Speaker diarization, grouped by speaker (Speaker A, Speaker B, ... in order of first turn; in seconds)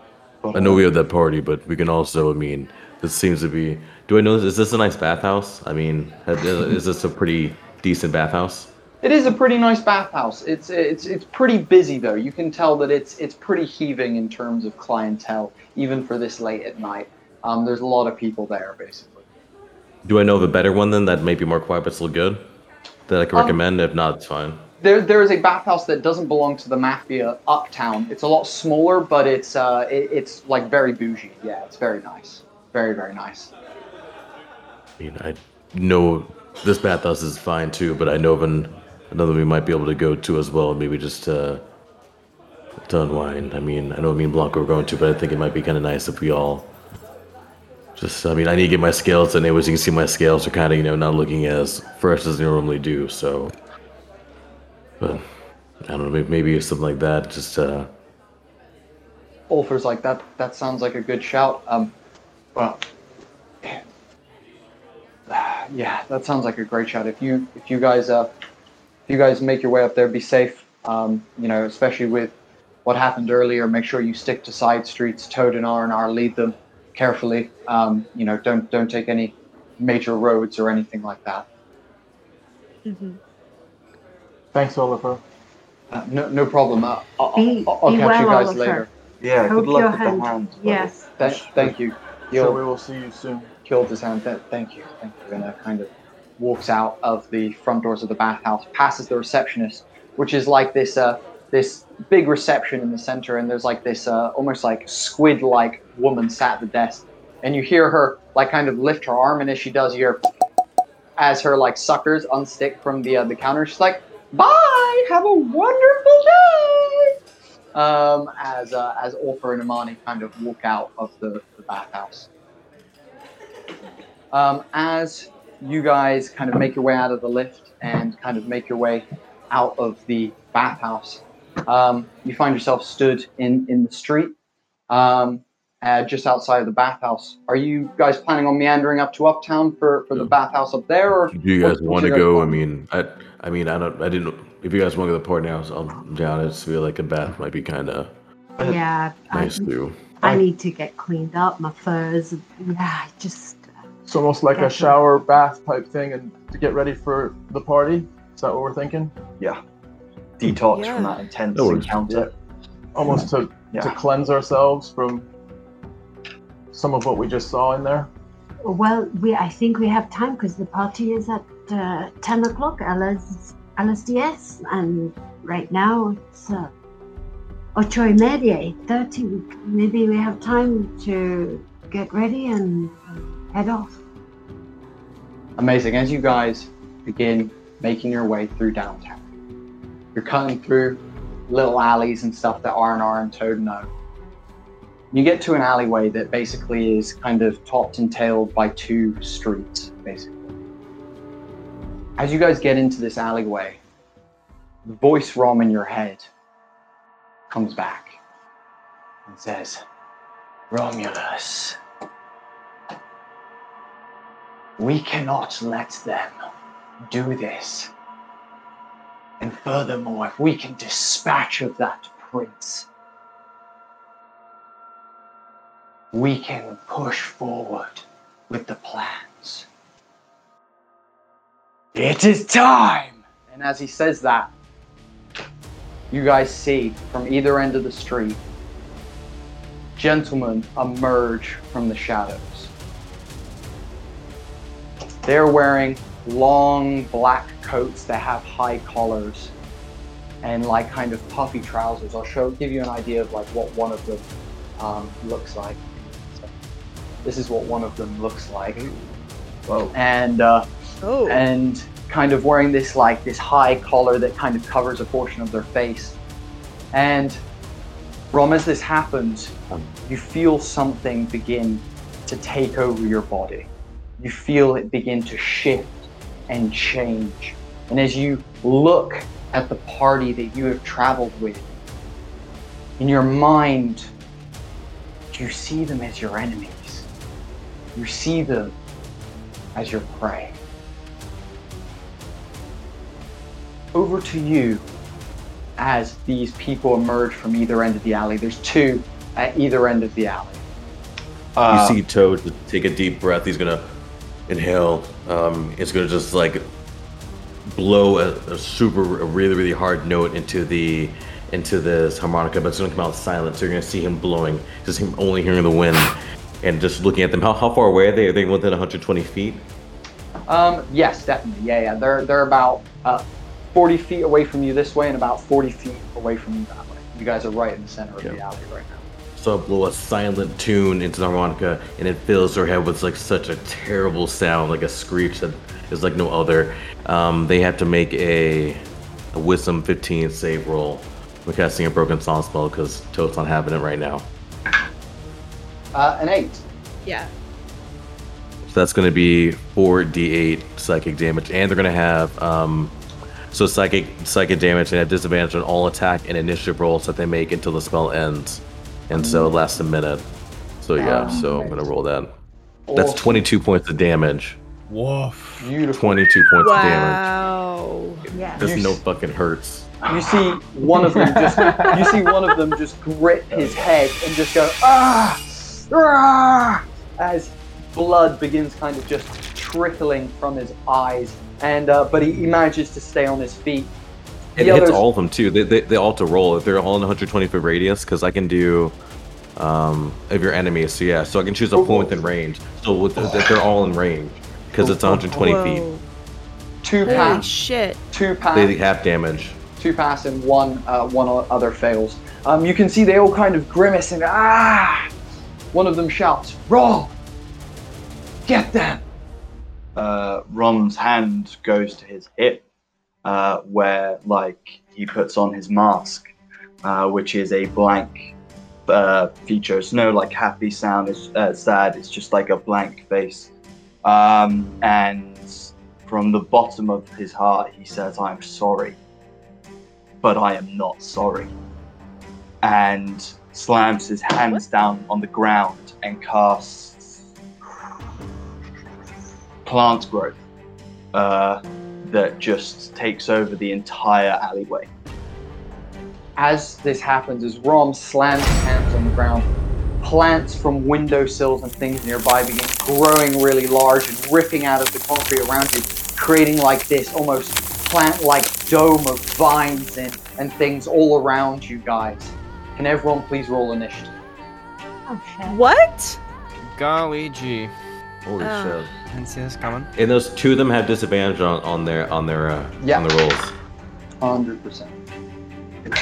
Speaker A: 0.4-0.8, 89.2-90.9, 160.4-162.3, 301.6-302.0, 397.1-397.4, 409.9-412.6, 413.2-416.2, 416.8-418.3, 418.9-423.5, 424.0-429.0, 430.2-431.5, 432.6-437.2, 439.6-440.4, 441.1-444.9
Speaker B: 0.5-8.7, 20.0-22.4, 23.1-24.7, 35.0-41.6, 42.9-46.7, 48.0-53.5, 55.0-55.2, 55.8-57.9, 141.3-148.1, 149.3-150.0, 161.5-162.0, 301.7-303.9, 304.5-306.6, 307.7-319.6, 329.4-344.3, 348.6-352.9, 353.5-360.2, 360.8-362.3, 362.9-364.6, 365.9-367.3, 368.6-370.0, 384.6-388.9, 389.6-395.9, 398.5-399.6, 468.2-468.9, 469.9-473.5
Speaker C: 9.0-19.2, 23.3-23.6, 24.8-33.5, 59.5-61.9, 62.5-62.8, 65.3-68.3, 69.1-81.5, 85.9-88.9, 91.2-92.6, 93.7-110.2, 111.2-117.2, 117.7-122.3, 124.3-134.3, 134.9-142.6, 185.6-189.2, 190.1-193.9, 195.1-200.5, 202.2-203.8, 204.8-206.3, 207.5-208.2, 209.3-209.8, 210.7-211.8, 214.8-216.4, 217.1-217.9, 219.4-222.9, 226.1-229.7, 231.9-234.5, 236.1-238.4, 239.9-242.7, 245.2-249.5, 250.4-254.2, 254.8-256.5, 257.2-258.9, 259.9-260.7, 261.3-266.2, 266.9-267.4, 268.3-269.5, 270.1-281.7, 283.0-284.1, 285.3-287.1, 287.9-288.7, 289.7-290.6, 293.9-294.9, 295.8-300.6, 320.5-329.1, 345.9-346.6, 359.1-359.6, 361.0-361.7, 362.9-363.4, 365.6-366.4, 368.5-369.0, 370.0-383.9, 384.6-385.0, 391.8-392.1, 396.8-397.5, 398.1-398.8, 399.8-405.1, 405.7-407.1, 408.5-409.0, 446.4-449.5, 450.0-464.1, 472.8-473.1, 474.2-475.0
Speaker D: 82.8-83.2, 160.7-161.2, 261.0-261.5, 347.0-347.3, 366.6-368.3, 395.3-396.0, 397.0-398.0, 465.4-466.2, 468.4-468.9
Speaker E: 84.5-85.2, 92.3-93.5, 154.1-159.2, 162.9-165.2, 166.7-168.1, 371.5-372.0
Speaker F: 87.3-88.8, 89.4-91.1, 148.6-153.7, 154.5-155.0, 168.6-176.7, 177.8-184.0, 361.2-361.8, 368.3-368.6, 465.1-465.6
Speaker G: 364.9-365.7, 466.6-467.7, 469.1-469.9